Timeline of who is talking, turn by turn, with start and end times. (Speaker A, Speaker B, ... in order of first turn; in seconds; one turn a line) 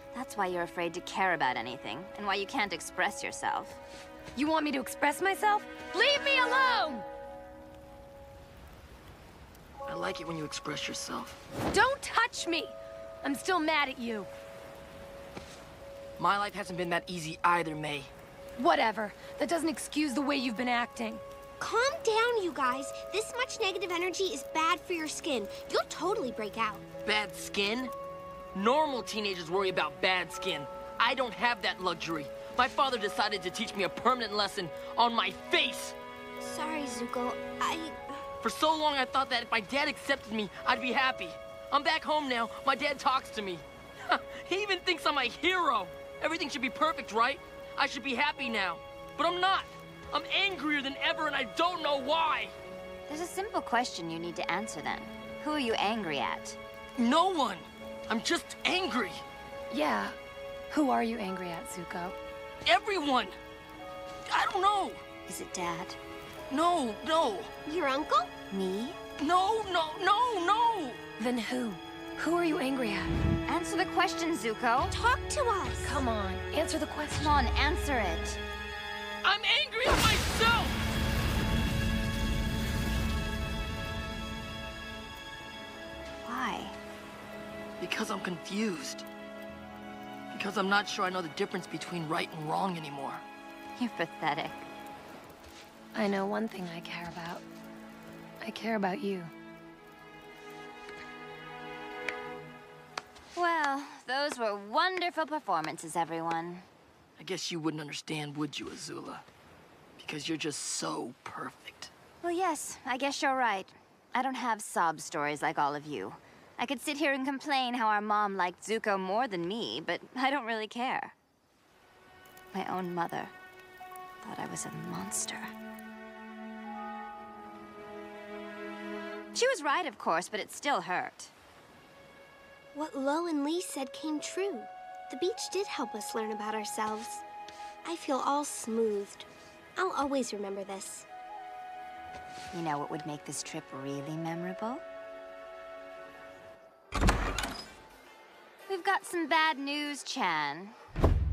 Speaker A: 0.1-3.8
Speaker B: 4.3-7.0
Speaker C: 9.8-11.4
Speaker B: 11.7-14.3
Speaker C: 16.2-18.1
Speaker B: 18.6-21.2
Speaker D: 21.6-26.8
Speaker C: 27.0-27.9
Speaker C: 28.5-36.0
Speaker D: 36.4-38.3
Speaker C: 38.4-52.5
Speaker A: 53.1-56.6
Speaker C: 57.0-59.2
Speaker B: 59.7-60.1
Speaker B: 60.7-62.1
Speaker C: 62.6-63.4
Speaker C: 64.2-65.0
Speaker A: 65.2-66.0
Speaker C: 66.5-67.5
Speaker D: 67.6-68.3
Speaker A: 68.5-69.0
Speaker C: 69.2-71.0
Speaker B: 71.2-73.1
Speaker A: 73.5-75.0
Speaker D: 74.9-76.0
Speaker B: 75.8-77.3
Speaker A: 77.1-78.4
Speaker C: 79.2-80.8
Speaker A: 86.2-86.8
Speaker C: 87.8-89.1
Speaker C: 90.3-93.2
Speaker A: 93.8-94.6
Speaker B: 95.9-97.4
Speaker B: 98.4-99.3
Speaker A: 103.3-106.7
Speaker C: 107.2-109.2
Speaker C: 110.0-111.9
Speaker A: 112.2-121.1
Speaker A: 122.5-123.3
Speaker A: 124.2-125.5
Speaker A: 129.3-131.3
Speaker D: 132.7-137.2
Speaker D: 137.8-141.1
Speaker A: 142.5-144.8
Speaker A: 148.7-150.8